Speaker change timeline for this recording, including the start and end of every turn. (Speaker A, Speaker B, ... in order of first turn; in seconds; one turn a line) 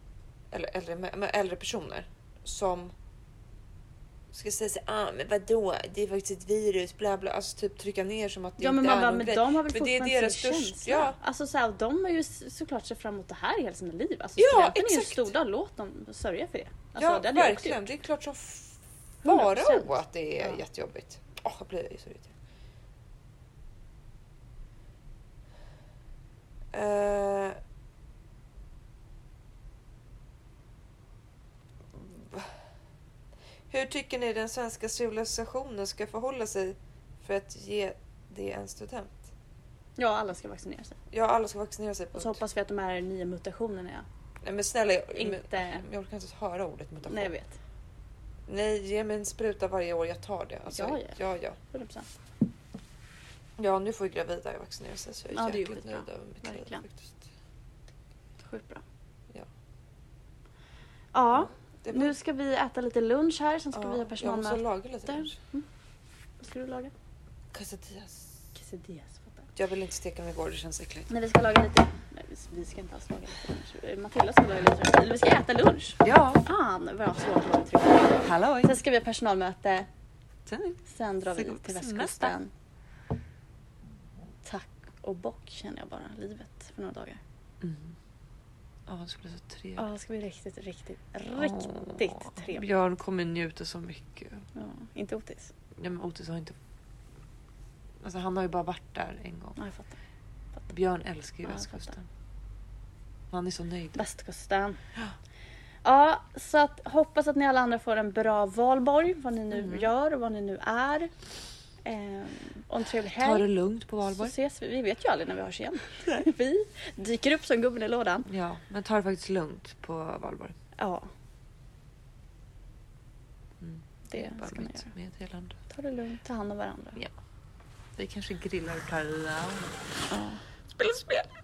Speaker A: 0.5-2.9
Speaker A: 4.3-11.2
Speaker B: 8.6-17.9
Speaker A: 14.4-15.3
Speaker A: 17.0-22.3
Speaker B: 19.2-20.6
Speaker A: 26.7-27.6
Speaker A: 31.9-32.5
Speaker A: 33.7-39.3
Speaker B: 40.0-41.0
Speaker A: 41.1-42.4
Speaker B: 42.1-44.1
Speaker A: 44.4-47.3
Speaker B: 45.2-45.9
Speaker B: 47.1-47.5
Speaker A: 48.5-51.6
Speaker B: 50.7-51.2
Speaker B: 51.7-52.1
Speaker A: 53.6-57.3
Speaker B: 55.3-56.8
Speaker B: 58.4-58.8
Speaker B: 61.1-65.7
Speaker A: 61.3-62.1
Speaker A: 63.7-65.4
Speaker B: 66.4-66.9
Speaker A: 67.5-68.3
Speaker B: 68.5-69.5
Speaker A: 69.6-71.1
Speaker B: 71.1-79.9
Speaker A: 76.0-76.5
Speaker A: 78.2-78.7
Speaker A: 80.5-80.8
Speaker B: 80.9-82.5
Speaker A: 81.4-82.3
Speaker B: 84.5-87.2
Speaker A: 87.6-88.0
Speaker A: 88.9-89.8
Speaker B: 89.8-92.7
Speaker A: 91.2-94.5
Speaker B: 94.5-95.5
Speaker A: 95.8-96.6
Speaker A: 98.0-99.6
Speaker B: 99.6-100.0
Speaker A: 100.7-102.1
Speaker A: 103.3-104.0
Speaker B: 104.0-104.8
Speaker B: 105.8-111.1
Speaker A: 109.5-109.9
Speaker B: 111.8-113.5
Speaker A: 113.2-114.3
Speaker B: 114.1-118.3
Speaker A: 118.3-120.6
Speaker B: 120.8-121.1
Speaker A: 123.6-125.6
Speaker B: 124.1-124.9
Speaker B: 125.7-127.0
Speaker A: 128.0-129.9
Speaker B: 130.1-130.4
Speaker A: 130.8-131.3